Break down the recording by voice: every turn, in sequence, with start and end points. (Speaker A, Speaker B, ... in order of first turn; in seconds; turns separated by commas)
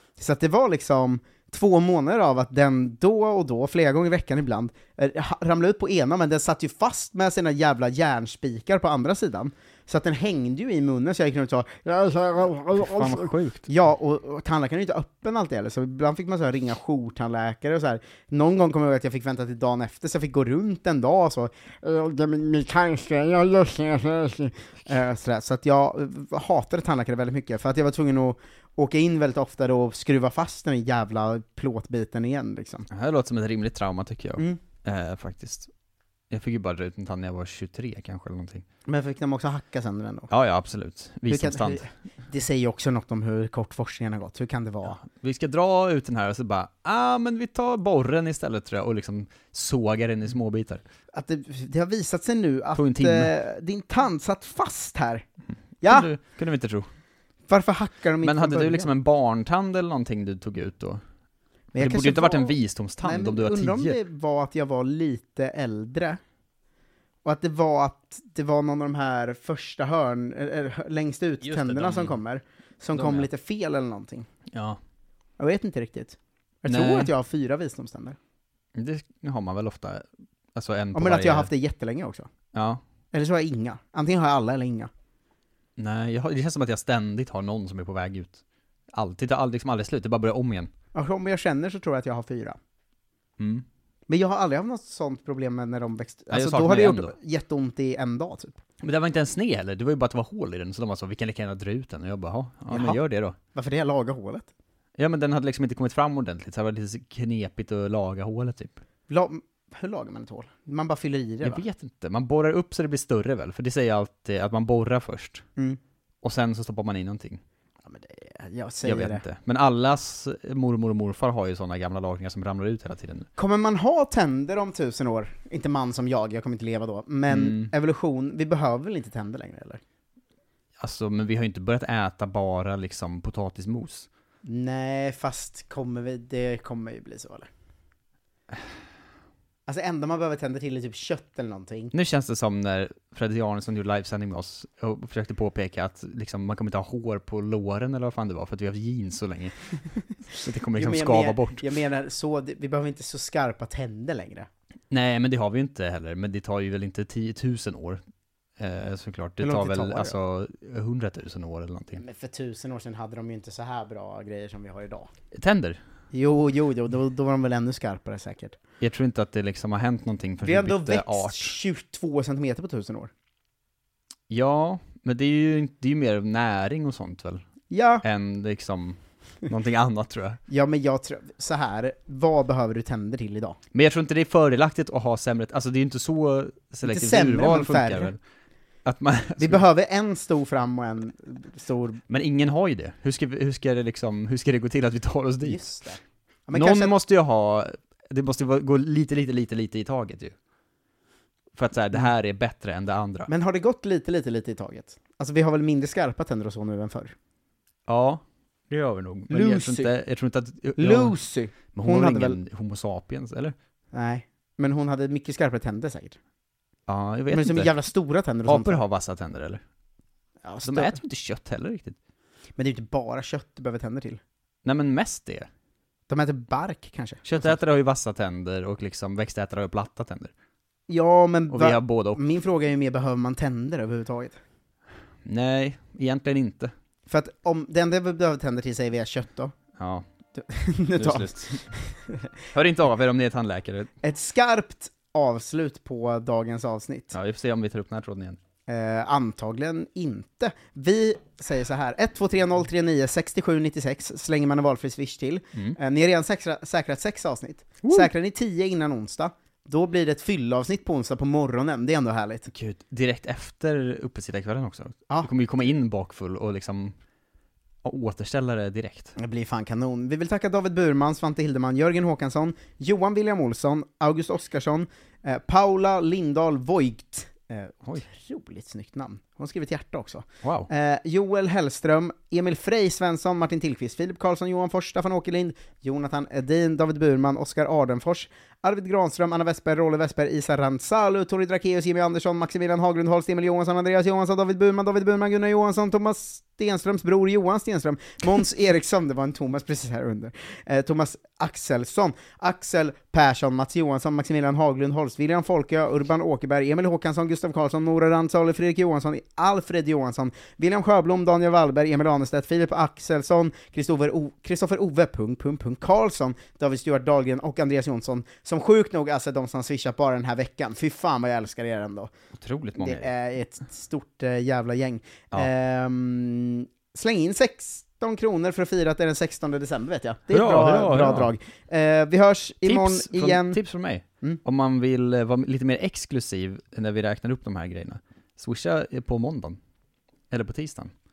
Speaker A: 0.2-32.9, Speaker B: 12.7-13.7, Speaker B: 32.9-35.7, Speaker B: 36.3-38.6, Speaker A: 38.9-40.3, Speaker B: 40.3-41.8, Speaker A: 41.3-45.0, Speaker B: 44.8-50.8, Speaker A: 51.1-55.2, Speaker B: 52.7-53.3, Speaker A: 55.8-56.1, Speaker B: 55.8-56.9, Speaker A: 57.5-58.9, Speaker B: 58.2-61.0, Speaker A: 61.7-66.2, Speaker B: 61.8-64.0, Speaker A: 67.2-74.2, Speaker B: 71.4-72.2, Speaker B: 72.9-73.3, Speaker B: 74.5-74.8, Speaker A: 75.4-78.2, Speaker B: 76.7-77.1, Speaker B: 78.7-81.5, Speaker A: 80.9-82.3, Speaker B: 82.5-82.8, Speaker A: 83.1-84.9, Speaker B: 85.8-88.4, Speaker B: 88.9-90.7, Speaker A: 90.9-92.6, Speaker B: 93.4-93.6, Speaker A: 94.1-98.6, Speaker B: 96.3-97.2, Speaker B: 98.8-103.3, Speaker A: 102.7-103.0, Speaker A: 103.5-104.5, Speaker B: 105.0-108.7, Speaker A: 109.1-111.6, Speaker B: 111.4-115.4, Speaker B: 116.2-117.4, Speaker A: 117.8-119.2, Speaker B: 118.8-123.3, Speaker A: 123.4-129.8, Speaker B: 127.3-127.7, Speaker B: 130.8-134.1, Speaker A: 134.4-137.5, Speaker A: 139.7-141.9, Speaker B: 141.9-149.5, Speaker B: 150.4-151.6, Speaker A: 150.7-154.5, Speaker B: 154.9-158.0, Speaker B: 158.6-162.0, Speaker A: 159.4-160.2, Speaker A: 161.9-165.1, Speaker B: 165.3-165.8, Speaker A: 166.1-168.6, Speaker B: 168.8-171.5, Speaker A: 170.4-173.1, Speaker B: 174.3-177.4, Speaker A: 177.7-178.0, Speaker B: 178.0-180.4, Speaker A: 180.5-183.6, Speaker B: 183.7-188.2, Speaker A: 186.8-188.1, Speaker B: 188.8-189.6, Speaker A: 189.4-192.0, Speaker B: 192.1-195.7, Speaker A: 195.4-196.9, Speaker B: 196.5-200.3, Speaker B: 201.5-203.3, Speaker A: 203.3-207.1, Speaker B: 207.9-211.2, Speaker A: 209.3-209.9, Speaker A: 210.8-212.4, Speaker B: 211.7-213.5, Speaker A: 213.9-216.2, Speaker B: 216.9-217.7, Speaker A: 217.3-218.8, Speaker B: 218.4-219.6, Speaker A: 220.4-221.0, Speaker B: 220.6-221.9, Speaker A: 222.6-224.2, Speaker B: 224.6-225.5, Speaker A: 226.1-227.6, Speaker B: 227.2-230.3, Speaker A: 230.9-234.4, Speaker B: 231.5-232.2, Speaker B: 235.2-236.7, Speaker A: 237.1-239.5, Speaker B: 239.8-240.0, Speaker A: 240.3-242.3, Speaker B: 240.9-241.6, Speaker B: 242.5-243.9, Speaker A: 244.0-247.2, Speaker B: 247.1-248.4, Speaker A: 248.7-262.5, Speaker B: 257.8-258.1, Speaker B: 262.5-266.9, Speaker B: 267.8-269.1, Speaker A: 269.2-322.1, Speaker B: 280.4-280.7, Speaker B: 322.4-323.1, Speaker A: 322.8-333.6, Speaker B: 330.3-331.3, Speaker B: 332.6-339.6, Speaker B: 340.3-340.9